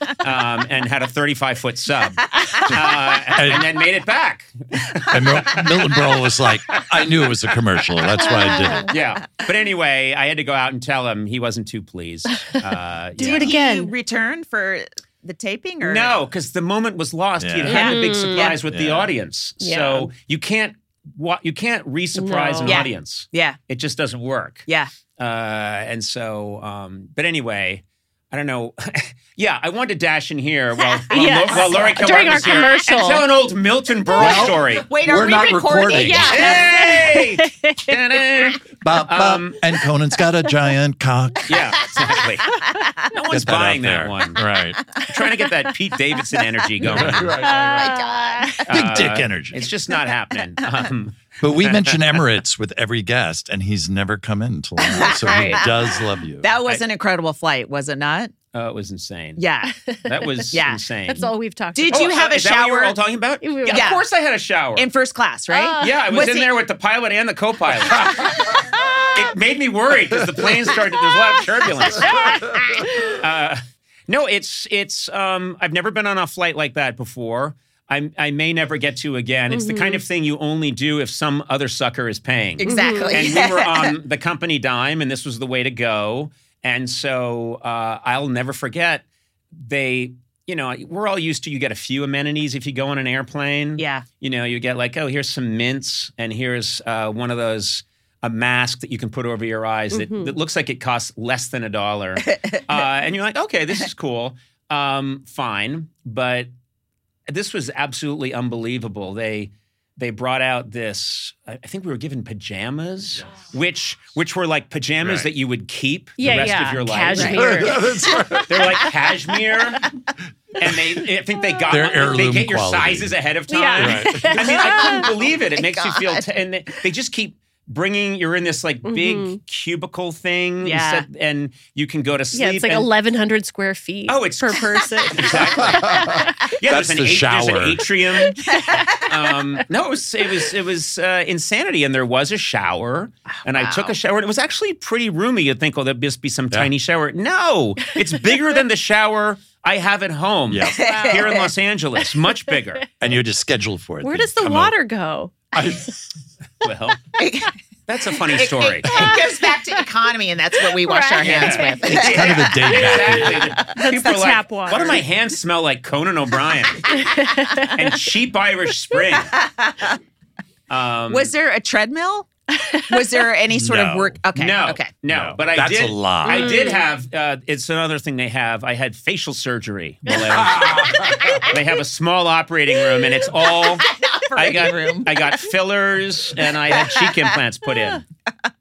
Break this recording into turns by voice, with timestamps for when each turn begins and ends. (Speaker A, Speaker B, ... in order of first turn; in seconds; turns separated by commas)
Speaker A: 0.2-5.7, Speaker B: 3.4-3.7, Speaker B: 5.1-8.9, Speaker C: 8.3-8.8, Speaker A: 8.9-13.5, Speaker C: 13.2-13.9, Speaker D: 13.2-16.1, Speaker A: 15.8-24.6, Speaker B: 17.4-17.8, Speaker D: 17.7-18.6, Speaker C: 17.7-18.5, Speaker B: 18.7-19.1, Speaker C: 19.6-20.1, Speaker C: 22.1-22.9, Speaker D: 22.7-23.6, Speaker A: 25.2-34.9, Speaker C: 31.1-33.3, Speaker D: 31.2-31.9, Speaker B: 34.2-36.5, Speaker D: 34.2-36.9, Speaker C: 35.9-37.9, Speaker A: 36.3-39.6, Speaker B: 38.8-41.8, Speaker A: 41.5-42.6, Speaker D: 42.6-43.0, Speaker A: 43.1-44.4, Speaker B: 43.3-44.8, Speaker A: 45.1-47.8, Speaker D: 46.8-48.6, Speaker B: 46.8-47.7, Speaker C: 47.3-48.7, Speaker A: 48.6-52.2, Speaker B: 48.7-49.7, Speaker B: 51.4-56.5, Speaker D: 54.8-55.9, Speaker D: 56.4-58.3, Speaker A: 58.5-59.4, Speaker D: 59.4-59.8, Speaker C: 59.8-60.5, Speaker A: 60.1-61.3, Speaker D: 60.5-60.8, Speaker C: 61.1-62.1, Speaker D: 61.8-63.0, Speaker A: 61.9-64.9, Speaker C: 63.4-64.0, Speaker D: 63.7-64.1, Speaker D: 64.8-66.5, Speaker C: 65.5-66.2, Speaker A: 65.8-68.3, Speaker D: 68.2-68.6, Speaker A: 69.1-89.0, Speaker C: 71.9-73.2, Speaker C: 79.5-80.0, Speaker D: 82.6-84.0, Speaker C: 82.6-83.2, Speaker A: 89.5-106.5, Speaker D: 93.8-94.0, Speaker C: 99.9-100.3, Speaker A: 107.3-117.9, Speaker B: 115.0-115.3, Speaker C: 116.2-117.9, Speaker B: 117.3-118.8, Speaker A: 118.4-119.8, Speaker A: 120.6-132.9, Speaker B: 121.7-123.1, Speaker C: 123.5-125.1, Speaker B: 123.8-124.5, Speaker D: 124.7-126.3, Speaker C: 128.8-129.4, Speaker D: 130.6-131.1, Speaker C: 132.3-136.5, Speaker A: 134.1-138.4, Speaker B: 135.6-137.9, Speaker C: 138.3-138.8, Speaker D: 138.5-139.0, Speaker A: 139.0-152.8, Speaker D: 143.6-143.9, Speaker B: 150.5-150.9, Speaker C: 150.8-151.2, Speaker D: 150.8-151.5, Speaker B: 153.0-154.8, Speaker C: 154.0-155.3, Speaker B: 155.5-156.0, Speaker A: 156.6-157.0, Speaker D: 157.2-157.6, Speaker A: 157.9-159.2, Speaker D: 158.3-162.5, Speaker C: 160.9-162.1, Speaker A: 161.2-166.9, Speaker B: 161.8-163.6, Speaker C: 163.1-165.0, Speaker C: 166.9-167.8, Speaker A: 167.8-169.3, Speaker D: 169.4-170.0, Speaker A: 170.7-171.3, Speaker D: 171.1-172.3, Speaker C: 172.6-173.2, Speaker D: 172.9-174.9, Speaker B: 173.5-174.2, Speaker A: 174.3-188.0, Speaker B: 175.1-176.6, Speaker C: 176.3-176.9, Speaker B: 180.5-181.3, Speaker D: 180.9-181.4, Speaker D: 183.4-185.2, Speaker D: 186.8-187.1